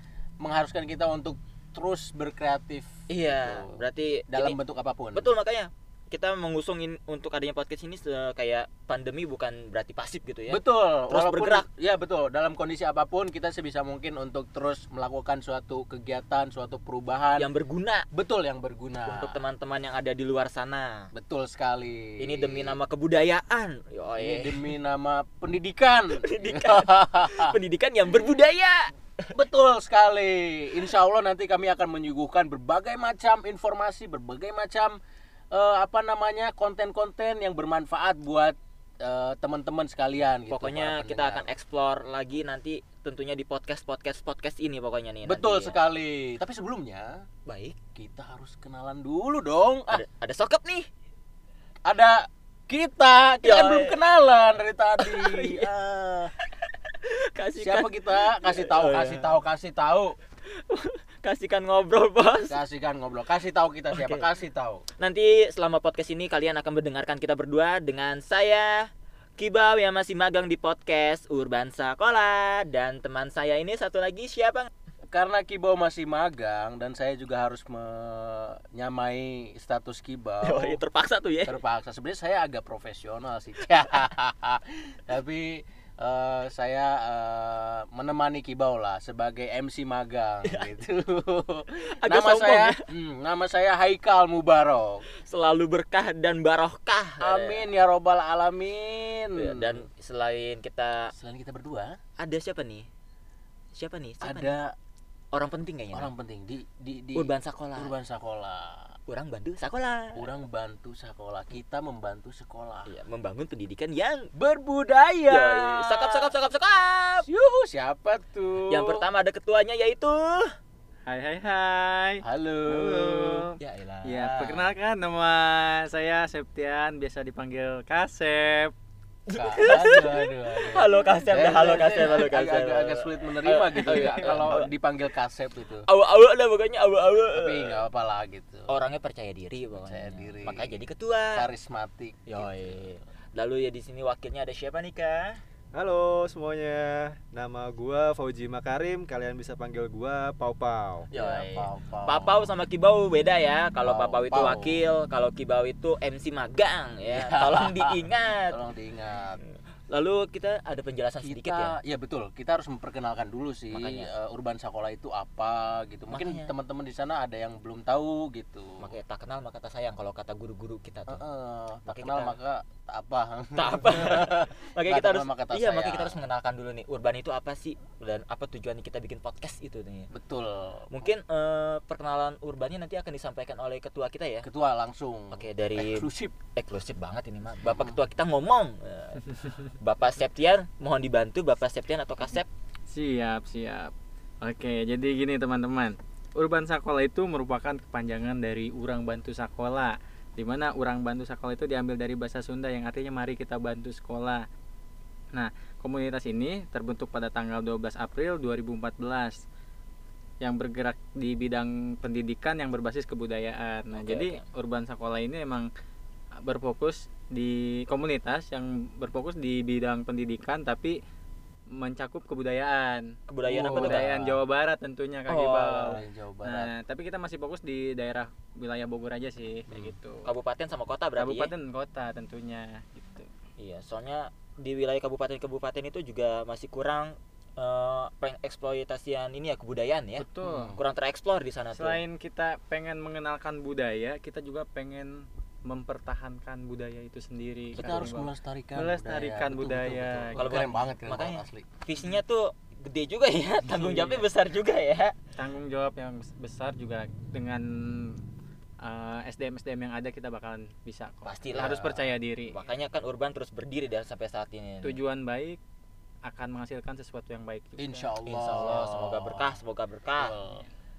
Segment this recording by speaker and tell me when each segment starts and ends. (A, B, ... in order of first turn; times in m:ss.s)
0:00.4-0:03.8 A
0:03.1-0:04.6 B
0:04.3-0:05.3 A
0:05.1-0:11.7 B
0:10.5-0:17.5 A
0:17.4-0:18.1 B
0:18.1-0:19.3 A
0:19.1-0:21.1 B
0:21.2-0:22.8 A
0:22.2-0:24.7 B
0:24.2-0:27.6 A
0:26.2-0:29.3 B
0:29.3-0:35.0 A
0:35.5-0:41.5 A
0:40.5-0:45.8 B
0:45.3-0:47.2 A
0:47.5-0:47.8 B
0:48.0-0:50.0 A
0:49.9-0:50.9 B
0:51.9-0:56.3 A
0:53.4-0:54.0 B
0:55.0-0:55.7 B
0:56.4-0:59.4 B
0:57.6-1:00.2 A
1:00.5-1:02.6 B
1:02.5-1:04.9 A
1:03.9-1:04.3 B
1:05.0-1:14.7 B
1:15.1-1:20.8 A
1:20.4-1:21.6 B
1:21.5-1:35.0 A
1:30.5-1:30.7 B
1:31.8-1:32.8 B
1:35.2-1:37.7 B
1:37.2-1:39.8 A
1:39.4-1:41.1 B
1:41.2-1:42.0 A
1:42.2-1:42.9 B
1:43.8-1:44.5 B
1:44.2-1:44.8 A
1:45.3-1:46.1 B
1:45.9-1:48.9 A
1:47.2-1:48.0 B
1:49.1-1:50.3 B
1:50.2-1:52.9 A
1:52.9-1:54.3 B
1:54.4-1:56.3 A
1:55.3-1:57.3 B
1:57.2-1:59.1 A
1:58.7-2:00.5 B
2:01.1-2:08.7 C
2:02.3-2:03.5 A
2:03.6-2:04.7 B
2:09.3-2:14.7 B
2:09.3-2:15.9 A
2:13.9-2:14.6 C
2:15.9-2:17.8 B
2:17.3-2:18.7 A
2:18.7-2:21.5 B
2:19.8-2:20.8 A
2:21.4-2:22.8 A
2:22.3-2:25.4 B
2:25.7-2:31.1 D
2:31.1-2:32.6 A
2:31.1-2:38.6 B
2:33.8-2:34.9 A
2:37.1-2:39.4 A
2:39.5-2:41.8 B
2:41.2-2:48.9 A
2:43.7-2:44.1 B
2:46.1-2:46.5 B
2:48.8-2:51.2 B
2:51.1-2:56.2 A
2:51.9-2:52.4 B
2:53.6-3:00.1 B
3:00.1-3:01.1 A
3:00.9-3:04.5 B
3:04.4-3:06.4 A
3:05.3-3:12.5 B
3:07.6-3:07.9 A
3:12.9-3:24.4 C
3:25.3-3:29.4 C
3:30.4-3:35.7 C
3:33.9-3:34.4 B
3:36.4-3:41.0 C
3:41.7-3:50.3 C
3:43.3-3:44.1 B
3:43.5-3:44.4 A
3:45.3-3:46.0 B
3:45.8-3:46.7 A
3:50.2-3:51.5 B
3:51.2-3:53.3 C
3:53.6-4:02.0 B
4:00.2-4:00.7 C
4:00.4-4:00.8 A
4:01.7-4:10.6 C
4:07.7-4:08.1 B
4:07.8-4:11.7 A
4:10.4-4:15.2 B
4:13.7-4:14.2 C
4:15.4-4:18.2 C
4:18.8-4:22.6 C
4:21.2-4:21.9 B
4:21.6-4:22.0 A
4:22.5-4:25.0 B
4:24.8-4:25.6 C
4:26.2-4:28.6 C
4:27.8-4:29.6 A
4:28.3-4:30.4 B
4:30.2-4:30.6 A